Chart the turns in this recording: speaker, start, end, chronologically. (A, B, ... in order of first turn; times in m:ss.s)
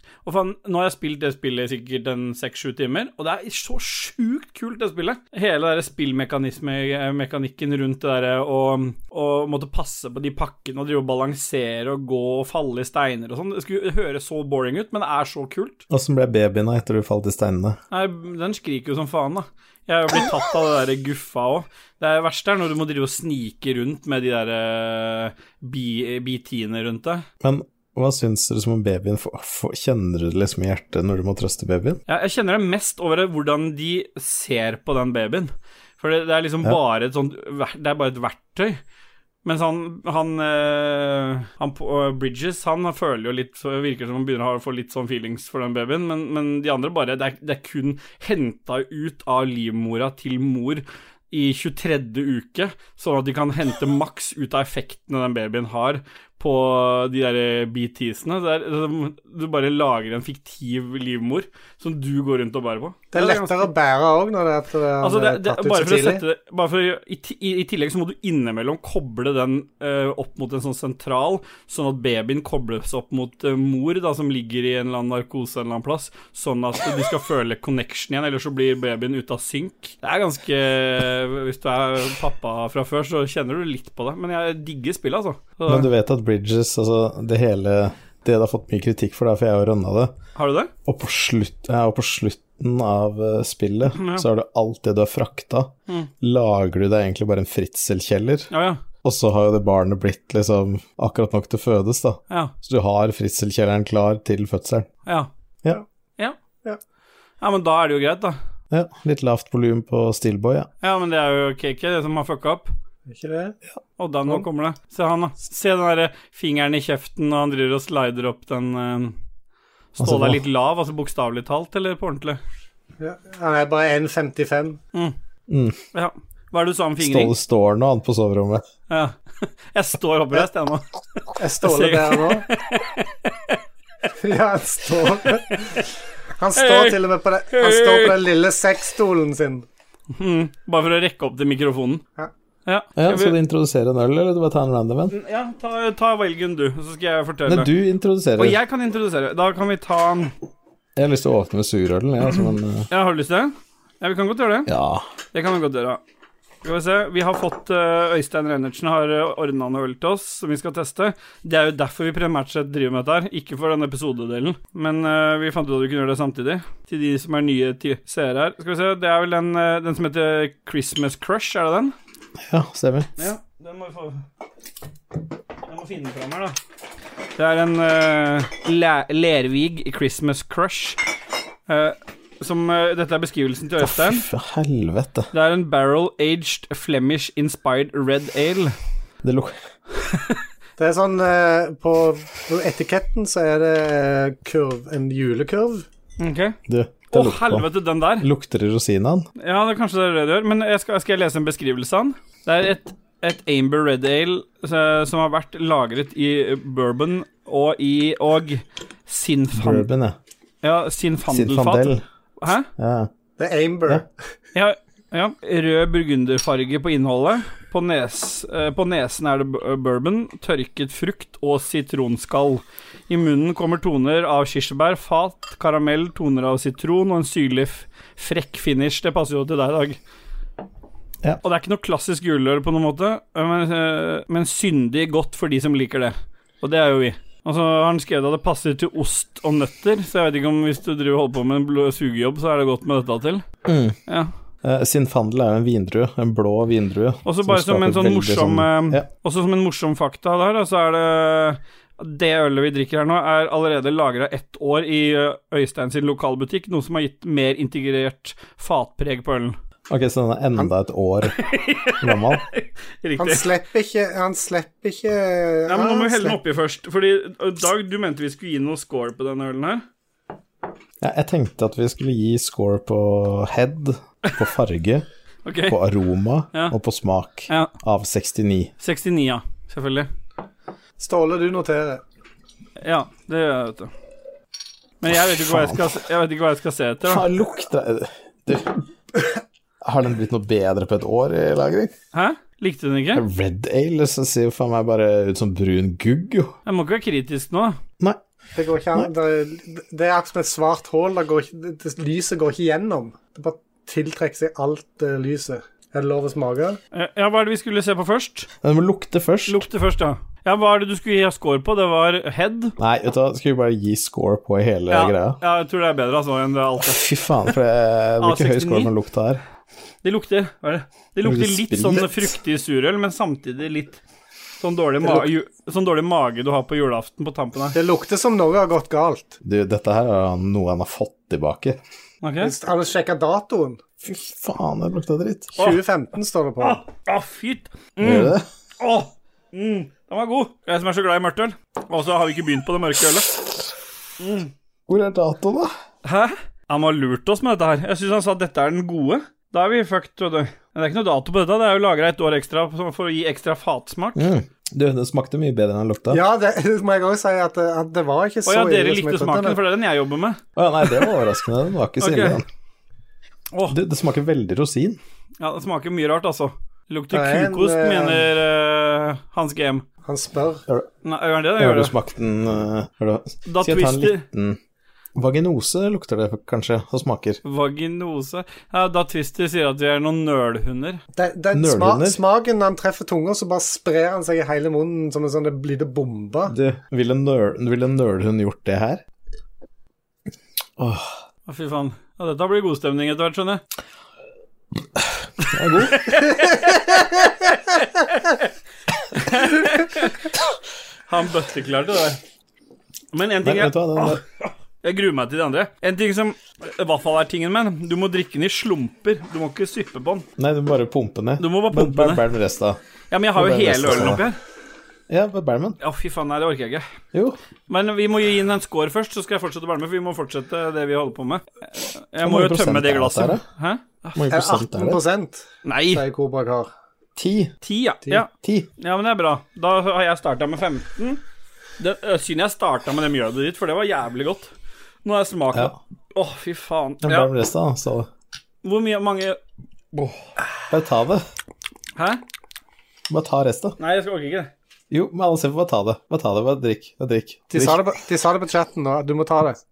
0:00.2-0:15.8 A
0:15.9-0:17.8 B
0:17.9-0:27.2 A
0:27.4-0:32.0 B
0:32.1-0:38.8 A
0:39.4-1:03.7 A
1:03.1-1:06.2 C
1:05.0-1:25.9 A
1:25.6-1:30.1 B
1:30.4-1:30.7 A
1:30.9-1:38.5 B
1:33.9-1:34.2 A
1:38.5-1:38.8 A
1:39.0-1:44.9 B
1:47.4-1:48.4 A
1:48.7-1:50.7 B
1:50.8-1:52.7 A
1:53.1-1:53.6 C
1:54.0-1:59.2 A
1:59.9-2:02.4 A
2:00.0-2:00.4 B
2:03.0-2:04.8 C
2:05.5-2:05.8 B
2:05.9-2:07.3 A
2:07.0-2:08.6 B
2:08.9-2:10.8 A
2:11.4-2:12.4 C
2:11.6-2:13.6 A
2:14.2-2:19.6 C
2:15.2-2:15.8 A
2:16.6-2:18.2 A
2:20.1-2:22.0 A
2:22.6-2:23.4 A
2:23.0-2:25.1 B
2:25.1-2:27.7 A
2:27.4-2:28.6 B
2:28.4-2:30.3 A
2:31.0-2:32.9 B
2:32.9-2:34.7 A
2:34.7-2:35.1 B
2:35.3-2:36.0 A
2:36.6-2:51.9 A
2:52.4-2:53.1 B
2:53.2-2:54.2 A
2:55.6-2:56.6 A
2:57.4-3:01.0 A
3:01.7-3:04.2 A
3:03.8-3:05.3 B
3:05.3-3:08.7 A
3:09.2-3:09.6 B
3:10.0-3:10.4 A
3:10.8-3:15.8 C
3:16.2-3:16.6 A
3:16.7-3:19.3 B
3:17.1-3:18.3 A
3:19.4-3:29.9 A
3:29.5-3:30.2 B
3:30.6-3:32.7 A
3:31.3-3:32.0 B
3:32.8-3:33.1 B
3:33.4-3:34.1 C
3:34.5-3:50.0 A
3:51.4-4:03.4 A
4:03.6-4:04.0 B
4:04.6-4:09.1 B
4:07.2-4:19.6 A
4:19.9-4:21.4 B
4:21.4-4:23.5 A
4:22.0-4:22.4 B
4:23.2-4:26.4 C
4:25.6-4:29.8 A
4:31.0-4:35.1 B
4:35.4-4:35.8 A
4:35.6-4:38.7 B
4:37.5-4:37.7 A
4:38.8-4:40.1 A
4:41.0-4:42.0 C
4:42.8-4:43.9 A
4:45.0-4:47.2 A
4:45.1-4:45.8 B
4:47.0-4:48.8 B
4:49.8-4:51.9 B
4:52.1-4:53.2 A
4:53.1-4:56.6 B
4:56.6-4:57.8 A
4:58.6-5:06.8 C
5:06.9-5:08.5 A
5:08.6-5:09.7 B
5:09.5-5:12.7 A
5:12.8-5:15.4 B
5:14.9-5:17.0 A
5:16.8-5:19.4 B
5:18.2-5:18.9 A
5:20.0-5:24.0 A
5:21.2-5:22.4 B
5:24.6-5:27.8 A
5:25.0-5:25.3 C
5:27.7-5:29.4 C
5:29.4-5:31.8 B
5:32.2-5:32.5 A
5:32.4-5:33.8 C
5:34.0-5:35.5 B
5:35.6-5:36.8 C
5:36.6-5:43.3 A
5:38.0-5:38.4 B
5:44.2-5:44.5 A
5:44.9-5:45.7 B
5:46.0-5:54.3 A
5:54.2-5:56.2 B
5:56.1-5:59.6 C
5:58.4-6:01.1 A
6:00.6-6:02.4 B
6:02.0-6:02.4 A
6:03.7-6:05.0 B
6:05.4-6:09.8 A
6:07.1-6:08.3 C
6:10.0-6:10.6 C
6:11.0-6:11.9 A
6:11.6-6:14.6 B
6:13.4-6:14.2 A
6:15.1-6:17.4 B
6:17.4-6:21.0 A
6:21.2-6:26.6 C
6:21.5-6:22.2 B
6:26.5-6:29.0 B
6:30.8-6:31.2 B
6:31.5-6:33.6 A
6:35.0-6:36.2 B
6:35.4-6:38.4 A
6:39.1-6:40.3 A
6:41.1-6:42.2 A
6:43.1-6:50.3 A
6:43.4-6:44.2 B
6:50.4-6:52.8 B
6:51.4-6:52.2 A
6:53.1-6:54.4 A
6:53.3-6:54.2 B
6:55.1-6:55.8 B
6:55.8-6:56.8 A
6:57.1-6:57.4 B
6:57.7-7:04.2 A
7:02.2-7:03.4 B
7:04.1-7:05.0 B
7:04.3-7:06.7 C
7:05.6-7:06.0 A
7:07.2-7:07.5 B
7:07.6-7:11.2 A
7:08.3-7:08.7 B
7:11.8-7:14.5 A
7:15.0-7:17.3 A
7:17.0-7:18.1 B
7:18.6-7:19.4 A
7:19.9-7:20.3 A
7:20.7-7:21.2 B
7:22.0-7:22.2 A
7:23.1-7:23.8 B
7:23.8-7:24.5 A
7:24.9-7:27.9 B
7:27.5-7:29.6 C